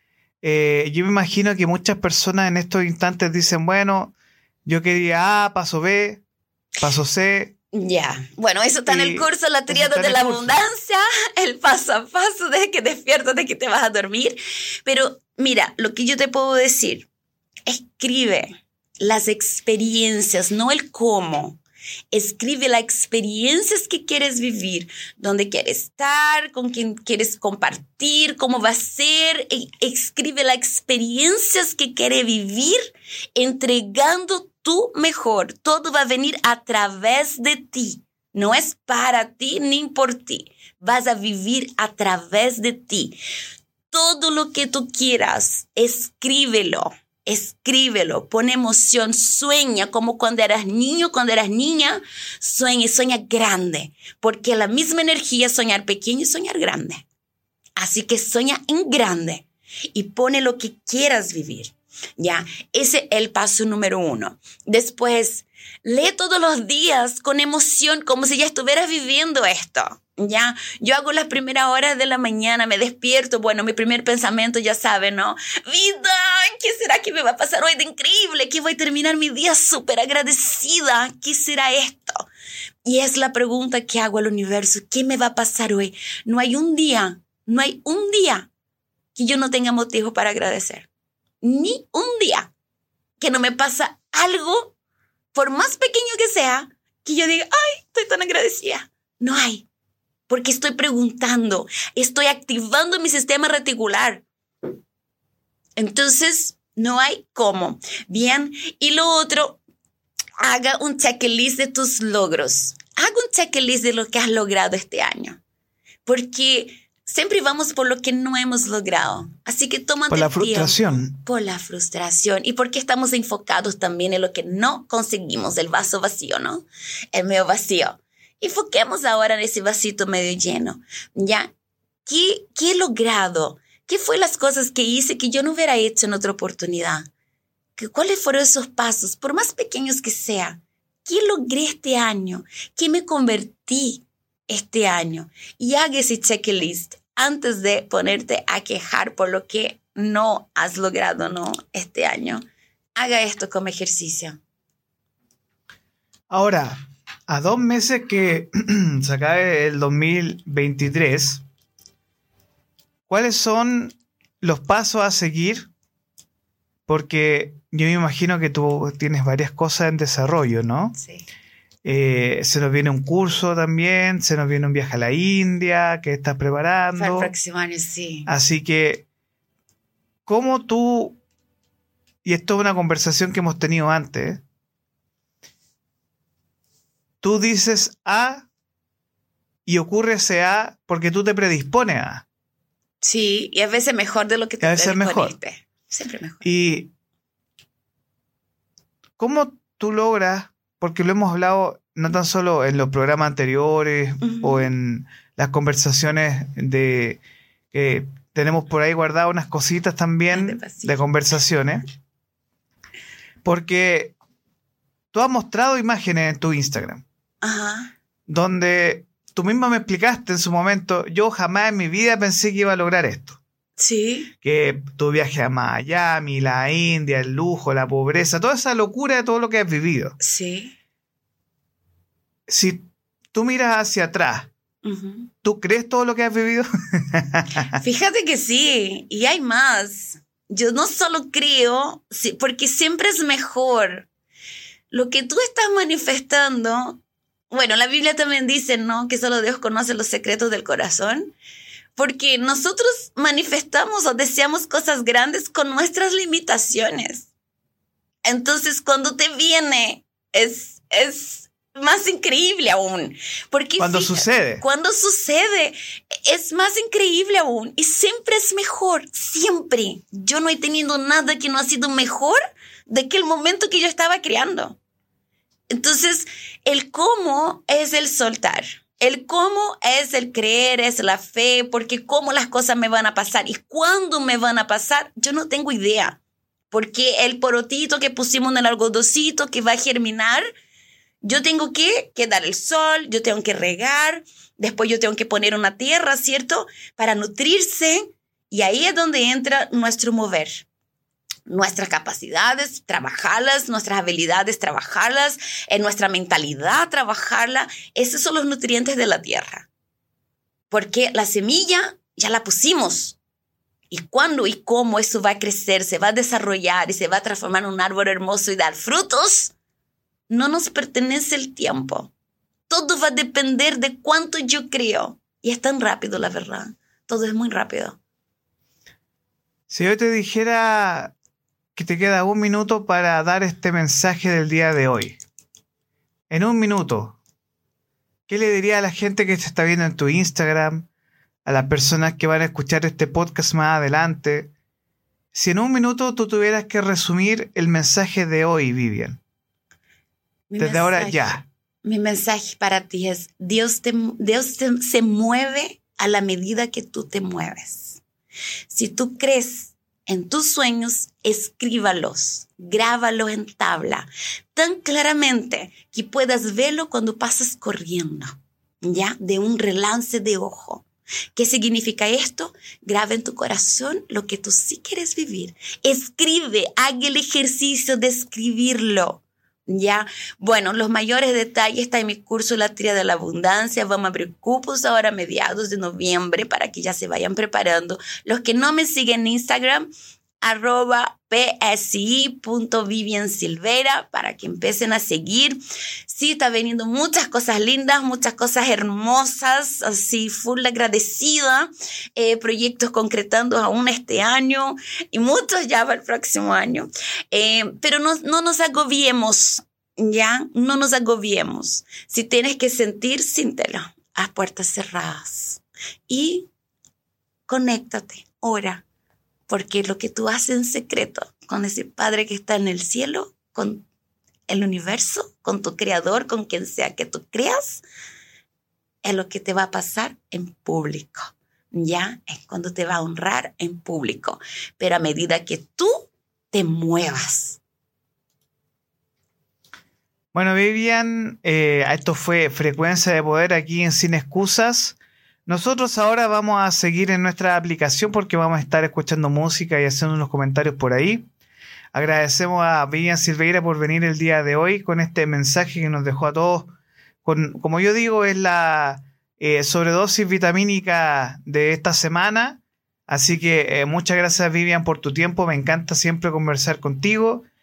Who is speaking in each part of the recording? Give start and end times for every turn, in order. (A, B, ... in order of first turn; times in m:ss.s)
0:00.4-0:04.1 A
0:04.6-0:06.2 A
0:06.8-0:07.5 A
0:07.7-0:17.1 B
0:08.9-0:10.6 A
0:17.7-0:21.6 B
0:22.1-0:43.2 B
0:43.9-0:57.0 B
0:57.8-1:22.3 B
1:22.8-1:28.5 B
1:29.2-1:30.9 B
1:31.4-1:32.5 B
1:33.2-1:34.8 B
1:35.3-1:39.7 B
1:40.3-1:44.2 B
1:45.8-1:49.6 B
1:50.4-1:55.4 B
1:56.1-2:11.5 B
2:00.1-2:01.2 A
2:12.0-2:17.1 B
2:17.8-2:32.4 B
2:33.0-2:34.4 B
2:36.3-2:36.8 A
2:37.3-2:41.4 A
2:43.1-2:45.7 A
2:46.9-2:51.0 A
2:51.0-2:51.2 B
2:51.8-2:57.3 A
2:57.0-2:58.3 B
2:58.3-2:59.0 A
3:00.3-3:01.2 A
3:02.2-3:04.4 A
3:07.2-3:08.5 A
3:09.7-3:12.2 A
3:13.0-3:16.5 B
3:14.6-3:15.4 A
3:16.4-3:16.9 A
3:19.2-3:27.2 A
3:24.2-3:24.7 B
3:27.7-3:31.8 A
3:30.3-3:31.0 B
3:33.4-3:34.2 A
3:35.1-3:37.0 A
3:37.4-3:37.9 B
3:38.3-3:43.4 A
3:43.8-3:44.3 B
3:44.4-3:50.2 A
3:50.2-3:50.7 B
3:52.5-3:54.5 A
3:54.8-3:55.3 B
3:55.4-3:57.7 A
3:57.7-4:04.1 B
4:04.9-4:07.0 B
4:07.5-4:11.3 B
4:12.0-4:17.3 B
4:18.2-4:34.8 B
4:23.8-4:24.6 A
4:35.7-4:46.2 B
4:46.7-4:50.5 B
4:51.2-5:00.7 B
5:01.5-5:09.7 B
5:10.7-5:13.2 B
5:13.9-5:19.5 B
5:20.3-5:22.1 B
5:22.7-5:28.0 B
5:29.7-5:31.1 A
5:31.8-5:35.2 A
5:36.3-5:37.2 A
5:38.3-5:40.9 A
5:41.4-5:44.5 A
5:45.3-5:49.2 A
5:50.5-5:58.0 B
5:50.6-5:51.4 A
5:58.7-6:29.9 B
6:30.4-6:56.5 B
6:57.5-6:58.8 B
6:59.5-7:03.8 B
7:04.5-7:07.8 B
7:09.0-7:17.6 B
7:20.3-7:31.3 A
7:31.9-7:36.7 A
7:37.2-7:47.5 A